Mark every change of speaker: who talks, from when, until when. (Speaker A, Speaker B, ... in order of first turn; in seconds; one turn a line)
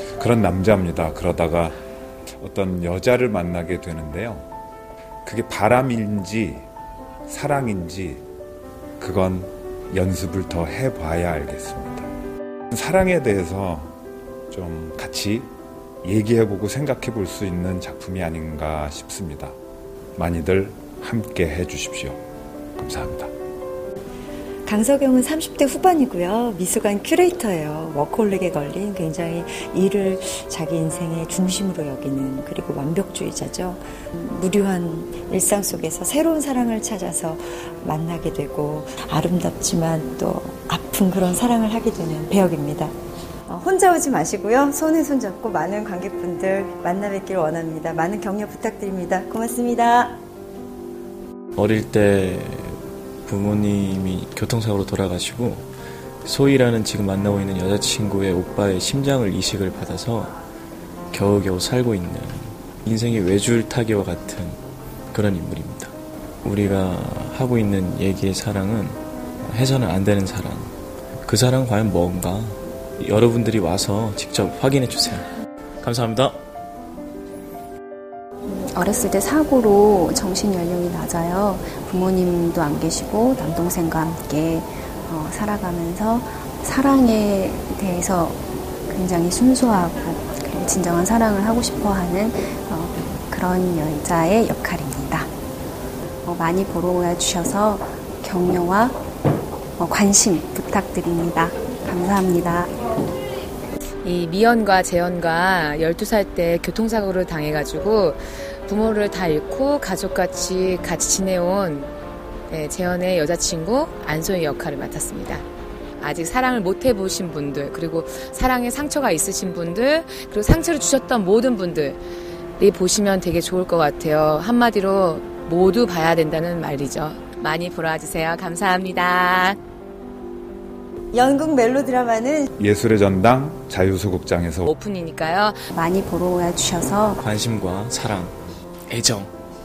Speaker A: 0.2-1.8
Speaker A: 2.4-4.5
Speaker A: 5.2-6.7
Speaker A: 7.3-8.2
Speaker A: 9.0-12.1
Speaker A: 12.7-13.9
Speaker A: 14.5-15.5
Speaker A: 16.0-19.6
Speaker A: 20.2-22.2
Speaker A: 22.8-23.3
Speaker B: 24.6-42.9
Speaker B: 43.5-50.2
Speaker C: 51.5-55.6
Speaker C: 56.2-60.3
Speaker C: 61.1-64.6
Speaker C: 65.1-65.9
Speaker C: 66.4-70.7
Speaker C: 71.2-75.3
Speaker C: 75.8-76.4
Speaker D: 78.5-95.3
Speaker D: 96.2-99.0
Speaker D: 99.8-102.7
Speaker E: 104.0-111.9
Speaker E: 112.5-115.4
Speaker E: 116.0-122.0
Speaker E: 122.6-129.6
Speaker B: 131.2-132.3
Speaker A: 132.6-134.7
Speaker E: 134.6-135.6
Speaker D: 135.7-137.2
Speaker C: 137.2-138.3
Speaker C: 138.9-139.3